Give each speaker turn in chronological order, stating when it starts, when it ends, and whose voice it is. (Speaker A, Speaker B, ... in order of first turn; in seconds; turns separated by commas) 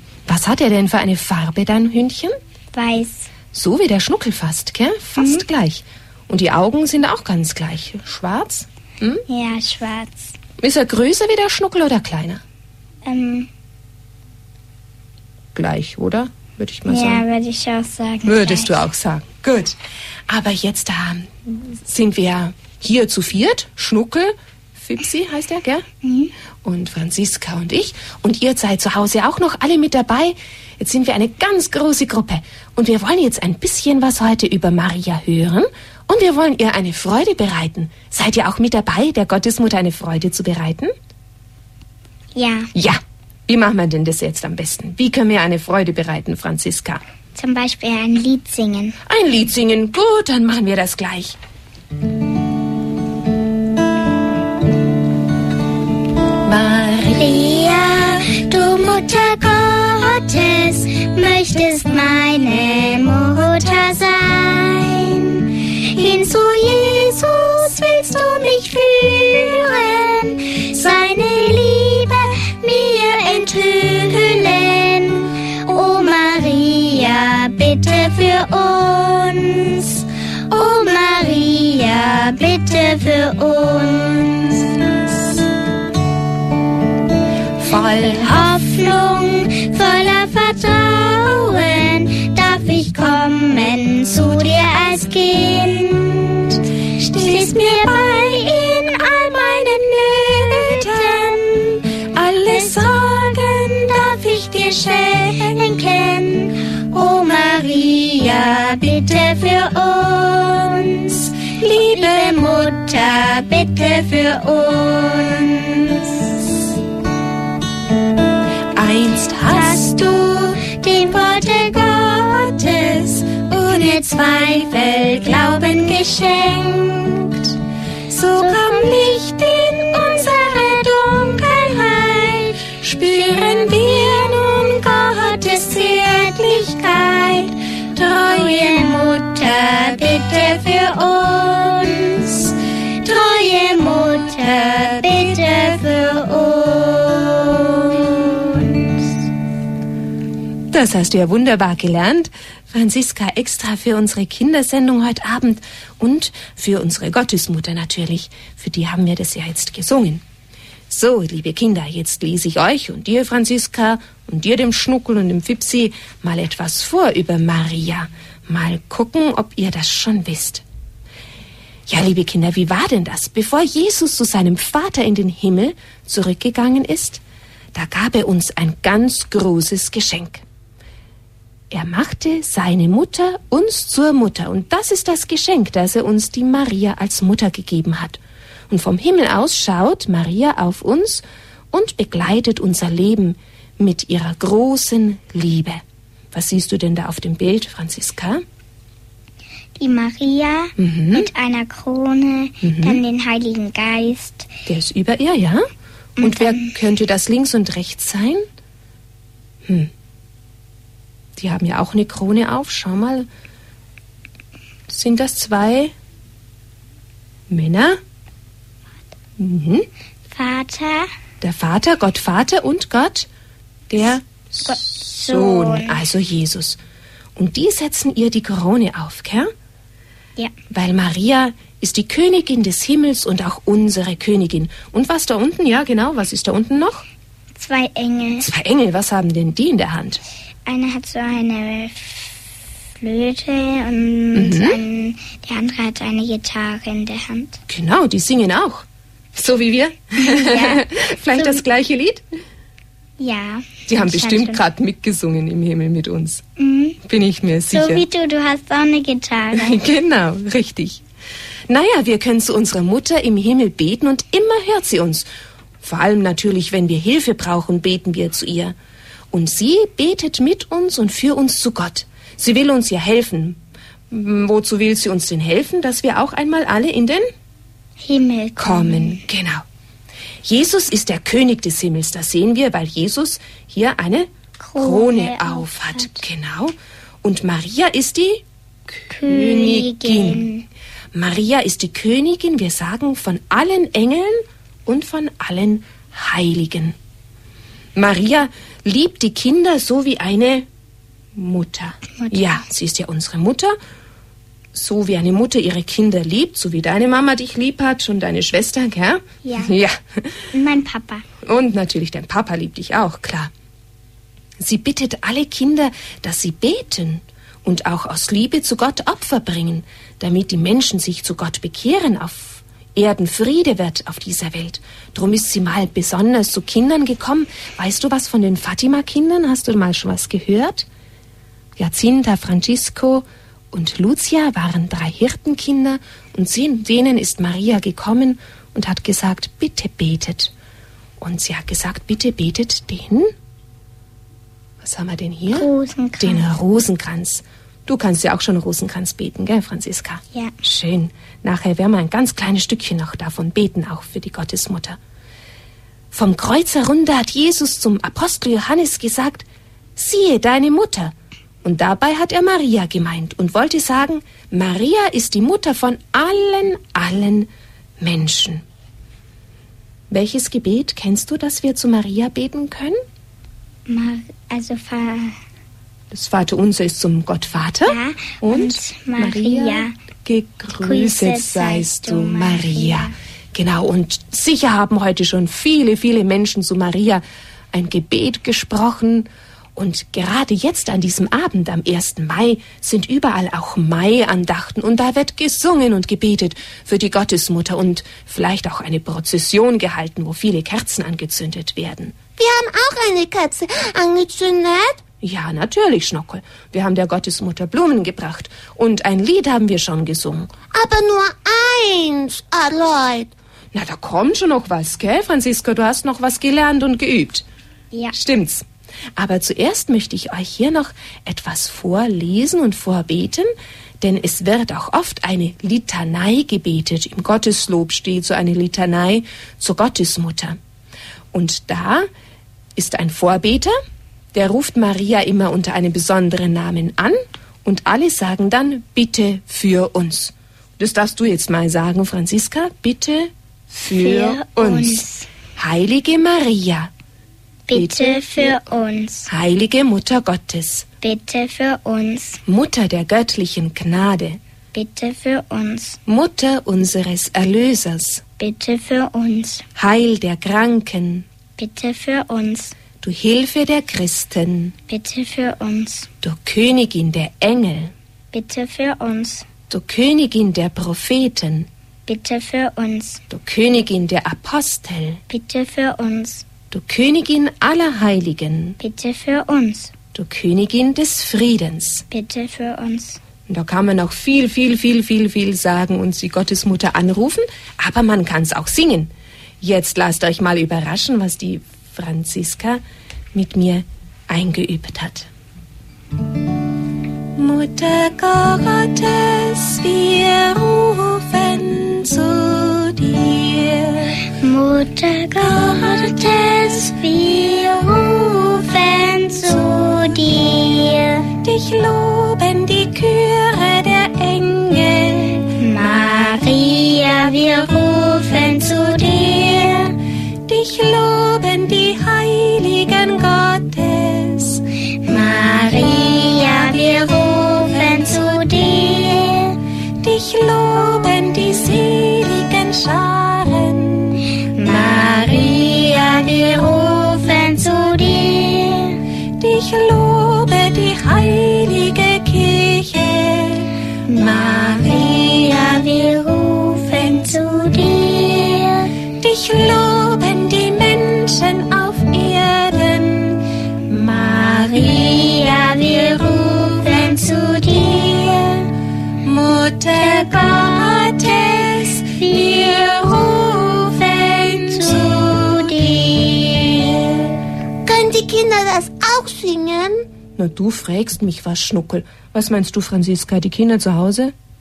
Speaker A: 0.3-2.4, Speaker B: 2.7-3.3, Speaker A: 3.5-9.2, Speaker B: 5.2-5.4, Speaker B: 9.3-10.3, Speaker A: 10.6-12.4, Speaker B: 13.0-13.5, Speaker A: 15.5-17.2, Speaker B: 16.9-18.8, Speaker A: 18.2-19.8, Speaker A: 20.3-25.8, Speaker B: 26.0-26.3, Speaker A: 26.6-40.9, Speaker B: 42.3-42.7, Speaker A: 42.7-47.0, Speaker B: 47.3-48.9, Speaker A: 49.0-51.4, Speaker A: 56.4-57.4, Speaker B: 57.1-85.2, Speaker B: 87.6-116.4, Speaker A: 118.7-119.9, Speaker B: 119.4-127.5, Speaker B: 128.1-149.1, Speaker A: 150.7-160.2, Speaker A: 160.9-170.6, Speaker A: 171.9-177.2, Speaker A: 177.7-180.4, Speaker A: 181.7-195.8, Speaker A: 196.3-198.4, Speaker B: 199.8-204.5, Speaker A: 200.8-201.3, Speaker A: 202.6-203.0, Speaker A: 204.7-205.6, Speaker B: 206.2-206.7, Speaker A: 206.2-208.4, Speaker A: 209.7-209.9, Speaker A: 211.4-213.3, Speaker A: 214.9-215.9, Speaker A: 217.5-218.0, Speaker A: 219.4-219.8, Speaker B: 220.3-221.1, Speaker A: 221.4-223.3, Speaker A: 223.9-226.8, Speaker B: 224.6-226.0, Speaker A: 227.3-229.5, Speaker A: 230.7-237.0, Speaker B: 237.6-238.5, Speaker A: 238.4-240.2, Speaker B: 240.7-242.4, Speaker B: 243.0-247.6, Speaker A: 244.3-244.8, Speaker A: 247.7-252.2, Speaker B: 250.2-251.6, Speaker B: 253.2-254.6, Speaker A: 253.9-256.4, Speaker B: 256.6-257.0, Speaker A: 257.0-258.0, Speaker B: 257.7-259.8, Speaker A: 259.5-261.0, Speaker A: 261.7-265.3, Speaker A: 265.8-268.7, Speaker A: 269.3-273.6, Speaker A: 274.1-277.3, Speaker B: 278.0-279.2, Speaker A: 278.6-279.6, Speaker A: 280.4-290.5, Speaker B: 284.6-286.2, Speaker B: 289.1-290.6, Speaker A: 291.1-296.9, Speaker A: 297.9-300.7, Speaker A: 301.3-303.8, Speaker B: 302.2-302.6, Speaker A: 304.7-310.5, Speaker B: 309.4-309.7, Speaker B: 310.5-311.2, Speaker A: 311.4-313.5, Speaker A: 314.6-330.9, Speaker A: 331.8-340.5, Speaker A: 341.2-343.3, Speaker A: 344.8-345.7, Speaker B: 345.5-346.4, Speaker A: 346.2-355.0, Speaker A: 356.1-359.4, Speaker A: 359.9-367.5, Speaker A: 368.0-368.6, Speaker A: 370.1-373.0, Speaker B: 373.9-375.4, Speaker A: 376.1-402.2, Speaker B: 377.9-379.9, Speaker B: 380.8-383.1, Speaker C: 402.4-405.0, Speaker A: 405.2-410.5, Speaker C: 410.7-413.3, Speaker A: 413.7-417.4, Speaker A: 418.1-418.6, Speaker A: 419.2-430.6, Speaker A: 431.3-432.1, Speaker A: 432.8-433.7, Speaker A: 434.3-445.0, Speaker B: 443.9-445.3, Speaker A: 445.6-446.9, Speaker B: 447.7-449.3, Speaker A: 447.7-448.5, Speaker A: 449.3-450.9, Speaker B: 451.0-452.4, Speaker A: 452.4-454.4, Speaker B: 454.7-456.0, Speaker A: 456.1-458.2, Speaker B: 458.4-459.6, Speaker A: 459.8-461.2, Speaker B: 461.6-462.7, Speaker A: 463.0-464.7, Speaker B: 464.9-466.1, Speaker A: 466.2-467.9, Speaker B: 468.3-469.4, Speaker A: 469.7-471.7, Speaker B: 472.1-473.2, Speaker A: 473.3-475.2, Speaker B: 475.3-476.4, Speaker A: 476.7-478.8, Speaker B: 478.8-479.9, Speaker A: 480.1-482.0, Speaker B: 482.1-483.2, Speaker A: 483.5-492.8, Speaker A: 493.3-495.3, Speaker A: 497.4-504.2, Speaker B: 504.2-511.3, Speaker A: 505.4-505.9, Speaker A: 511.4-515.5, Speaker B: 515.5-520.0, Speaker A: 520.5-524.6, Speaker B: 525.0-529.6, Speaker A: 530.0-534.2, Speaker B: 534.5-539.0, Speaker A: 539.4-543.7, Speaker B: 544.1-549.0, Speaker A: 544.2-544.7, Speaker A: 549.2-553.4, Speaker B: 553.9-558.7, Speaker A: 559.2-565.4, Speaker B: 559.9-563.2, Speaker B: 564.2-567.2, Speaker C: 567.8-570.0, Speaker A: 570.4-574.3